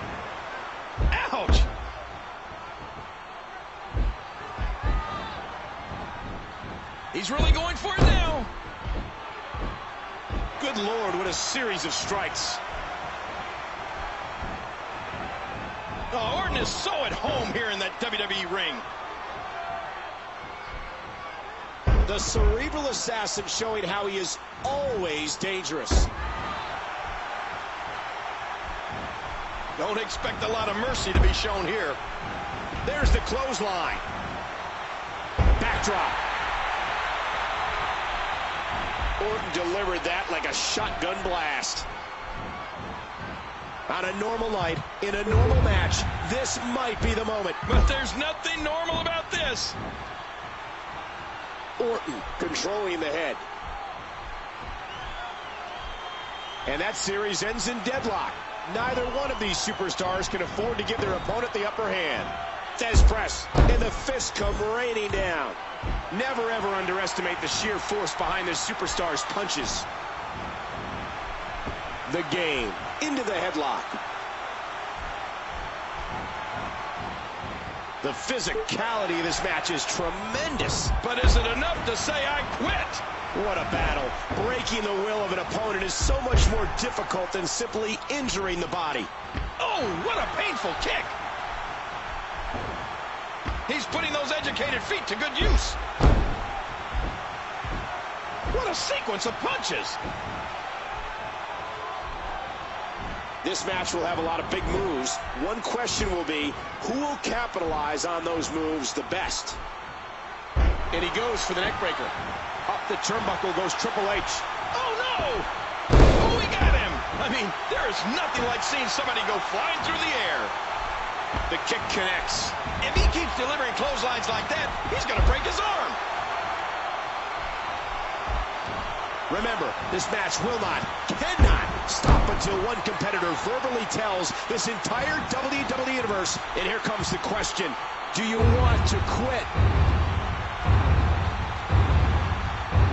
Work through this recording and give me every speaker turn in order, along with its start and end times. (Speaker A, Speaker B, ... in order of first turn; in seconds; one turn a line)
Speaker A: 1.1-1.7
Speaker A: 7.1-8.5
Speaker B: 10.6-12.6
Speaker A: 16.1-18.9
Speaker B: 22.1-26.1
Speaker A: 29.8-32.0
Speaker B: 32.8-34.0
Speaker B: 35.6-36.2
Speaker B: 39.2-41.9
Speaker B: 43.9-47.6
Speaker A: 47.7-49.8
Speaker B: 51.8-53.5
Speaker B: 56.7-65.6
Speaker B: 66.1-69.9
Speaker B: 72.1-74.0
Speaker B: 78.0-80.9
Speaker A: 81.0-83.0
Speaker B: 83.3-89.1
Speaker A: 89.6-91.2
Speaker A: 93.7-95.8
Speaker A: 98.5-100.0
Speaker B: 103.4-109.6
Speaker B: 110.9-112.1
Speaker B: 112.7-114.5
Speaker A: 114.7-115.5
Speaker A: 116.1-120.5
Speaker B: 121.5-122.6
Speaker A: 122.8-126.0
Speaker B: 129.3-139.5